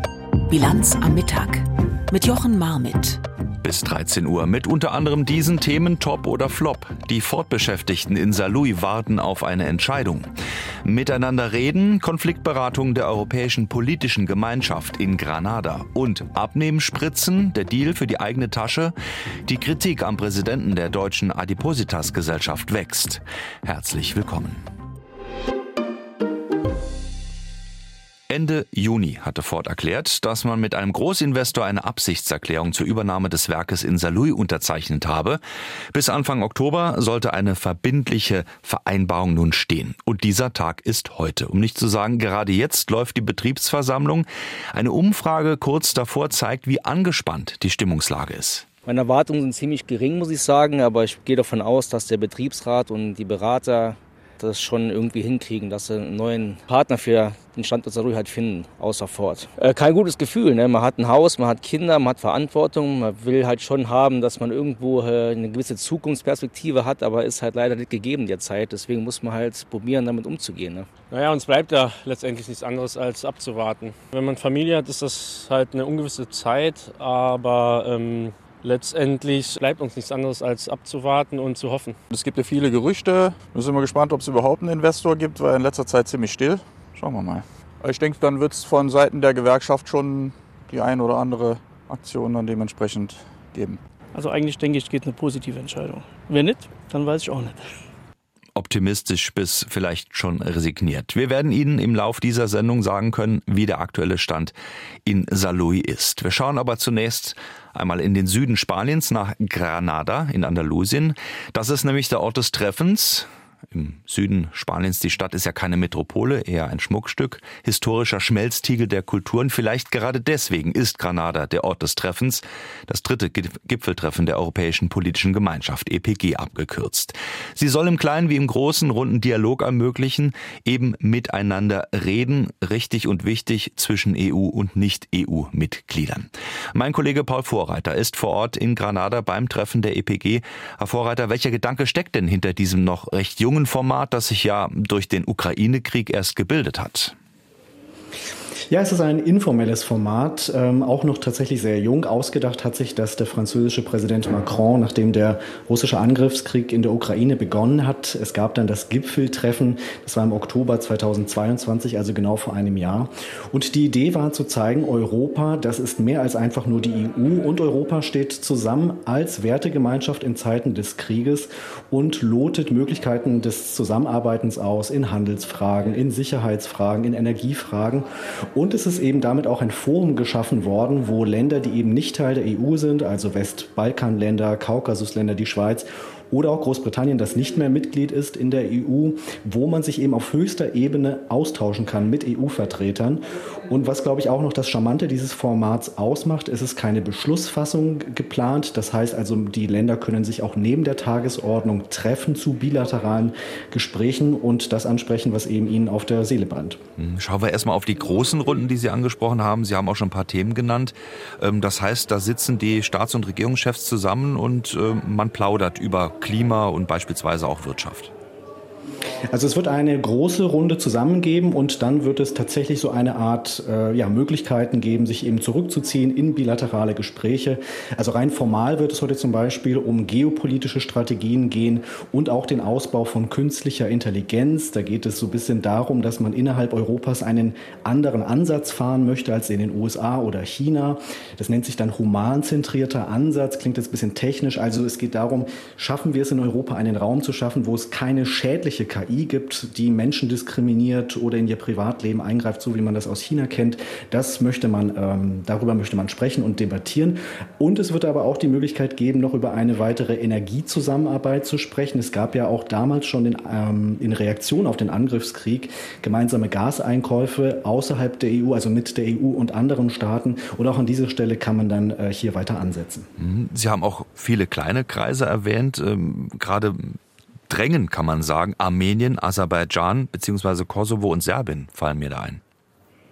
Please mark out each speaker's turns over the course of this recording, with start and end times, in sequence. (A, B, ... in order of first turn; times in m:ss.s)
0:00.5-0:03.2 A
0:03.6-0:10.3 B
0:10.8-0:18.9 B
0:19.5-0:24.6 B
0:28.3-0:35.4 B
0:35.9-0:48.7 B
0:48.9-1:10.9 C
1:11.1-1:22.0 D
1:22.1-1:33.8 E
1:34.1-1:37.7 F
1:38.6-1:44.5 B
1:45.0-2:27.1 B
2:28.7-3:26.8 G
3:27.0-3:38.1 B
3:39.3-4:33.1 G
4:33.2-4:37.0 B
4:37.5-4:42.4 B